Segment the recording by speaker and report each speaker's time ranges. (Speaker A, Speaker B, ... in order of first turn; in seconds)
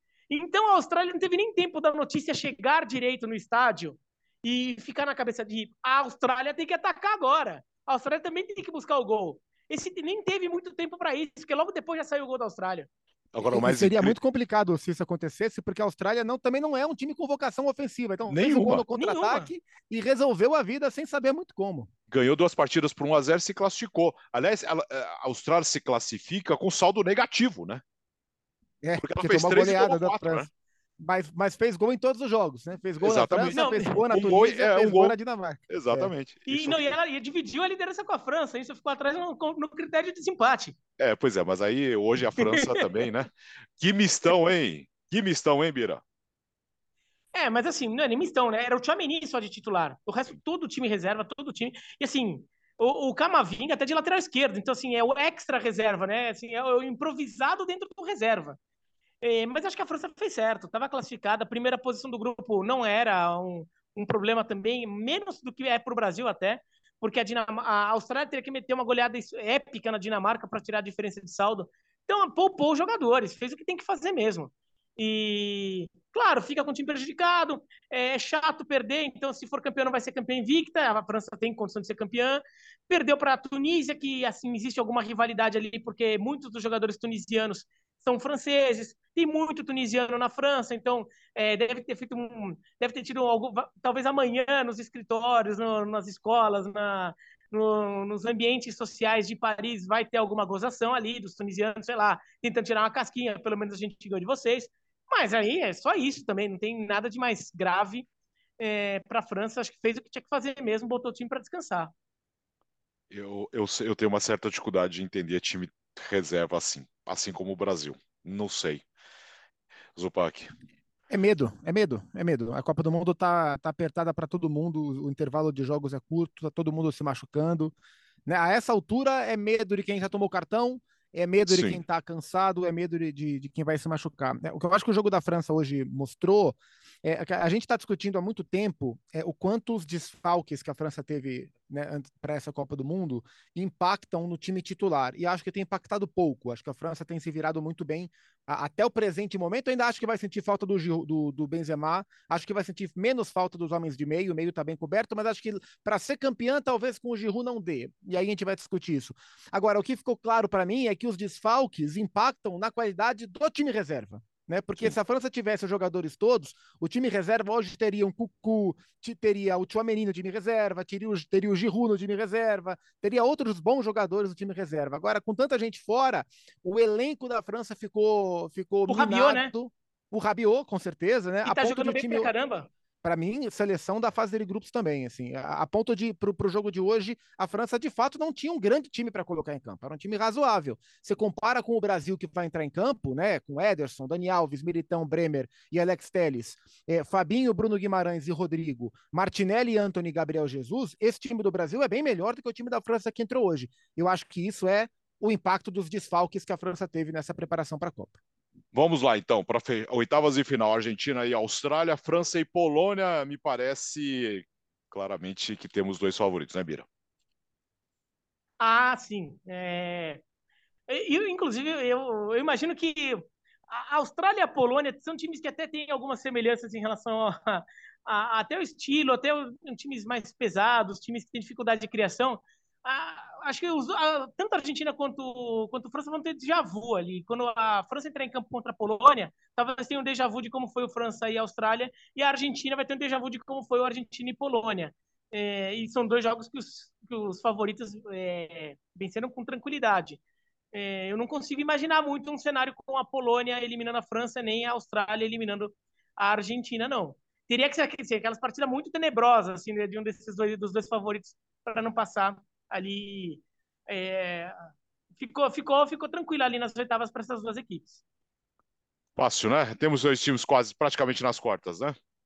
Speaker A: 0.3-12.9, 18.9-19.5, 33.5-34.0, 36.5-40.8, 42.4-42.6, 47.3-58.6, 59.2-108.1, 108.6-111.9, 178.9-179.5, 181.4-182.7, 218.6-220.2, 220.9-250.2, 250.7-268.0
Speaker B: 13.3-14.2, 18.3-18.8, 22.1-27.8, 29.0-30.5, 33.0-35.2, 35.7-36.9, 41.0-46.0, 113.1-118.8, 120.0-120.5, 131.5-131.8, 208.7-216.9, 269.2-271.9
Speaker C: 13.4-21.9, 28.8-30.5, 31.0-36.1, 121.1-127.8, 128.3-182.3, 183.0-208.2